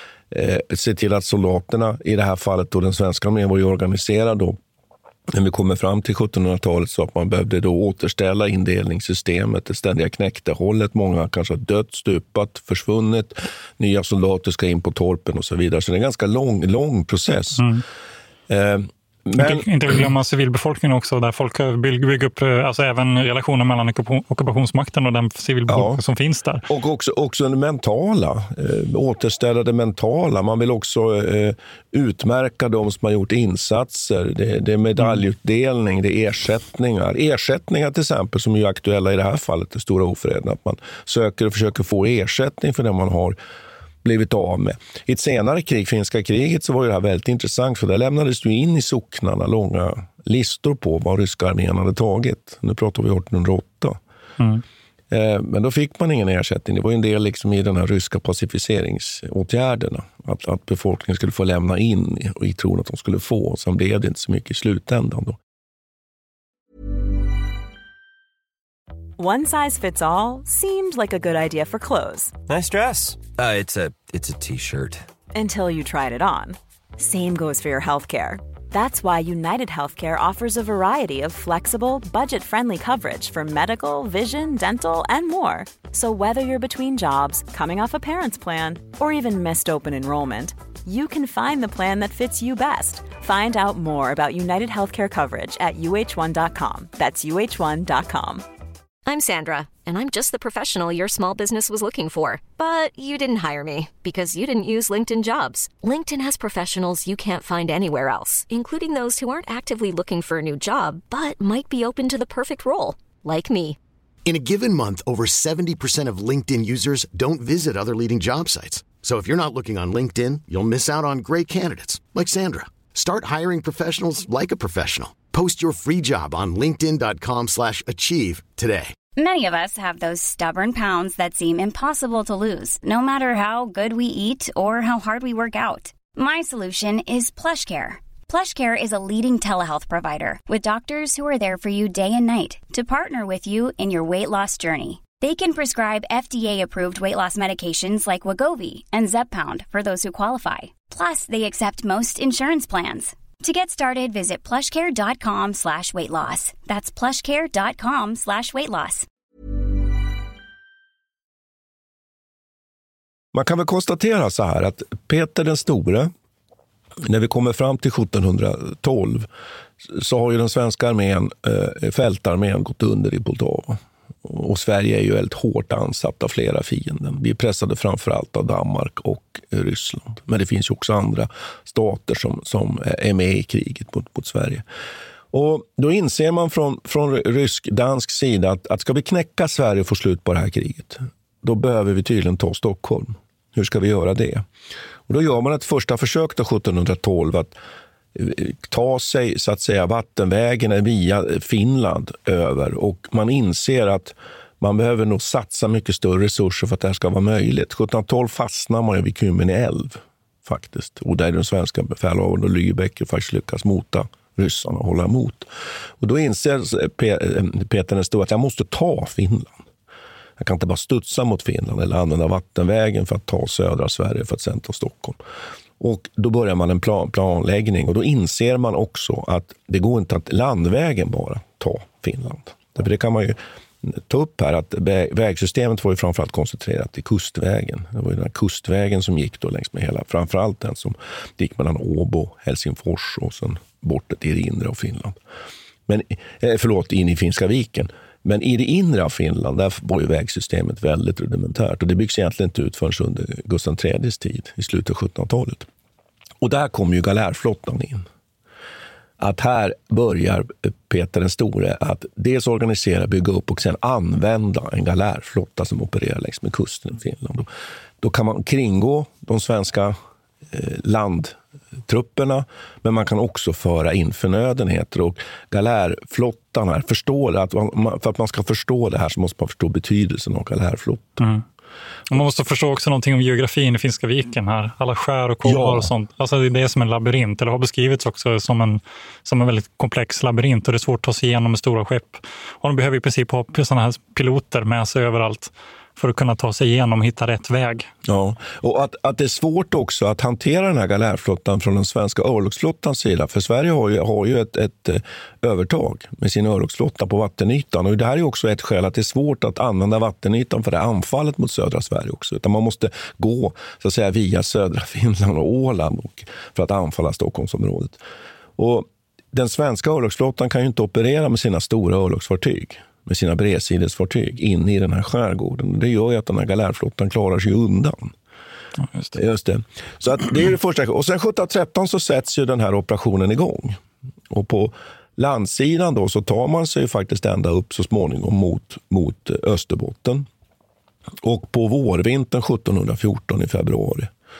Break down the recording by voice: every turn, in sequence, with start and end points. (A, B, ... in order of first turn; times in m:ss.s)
0:00.3-0:04.6 A
0:05.3-0:17.7 A
0:17.6-0:17.8 B
0:18.5-0:19.7 A
0:19.4-0:26.6 B
0:25.7-0:26.0 A
0:26.7-0:43.4 A
0:44.0-0:54.0 A
0:54.4-0:54.6 B
0:55.1-1:05.4 A
1:09.2-1:12.4 C
1:12.5-1:15.0 D
1:15.3-1:38.4 C
1:39.0-1:53.8 E
1:54.2-2:08.9 F
2:09.1-2:39.1 G
2:43.3-2:46.1 A
2:47.0-2:49.3 A
2:49.8-3:04.6 A
3:05.3-3:14.4 A
3:15.1-3:17.6 A
3:18.1-3:35.5 A
3:36.0-3:39.6 A
3:40.4-3:45.2 A
3:45.8-4:05.2 A
4:05.9-4:15.6 A
4:16.4-4:18.0 A
4:19.2-4:27.5 A
4:28.0-4:30.0 A
4:30.5-4:41.2 A
4:41.2-4:41.4 B
4:42.1-4:57.9 B
4:45.4-4:45.9 A
4:58.0-5:18.0 A
5:18.6-5:28.1 A
5:28.8-5:29.2 B
5:29.1-5:40.2 A
5:41.2-5:44.1 A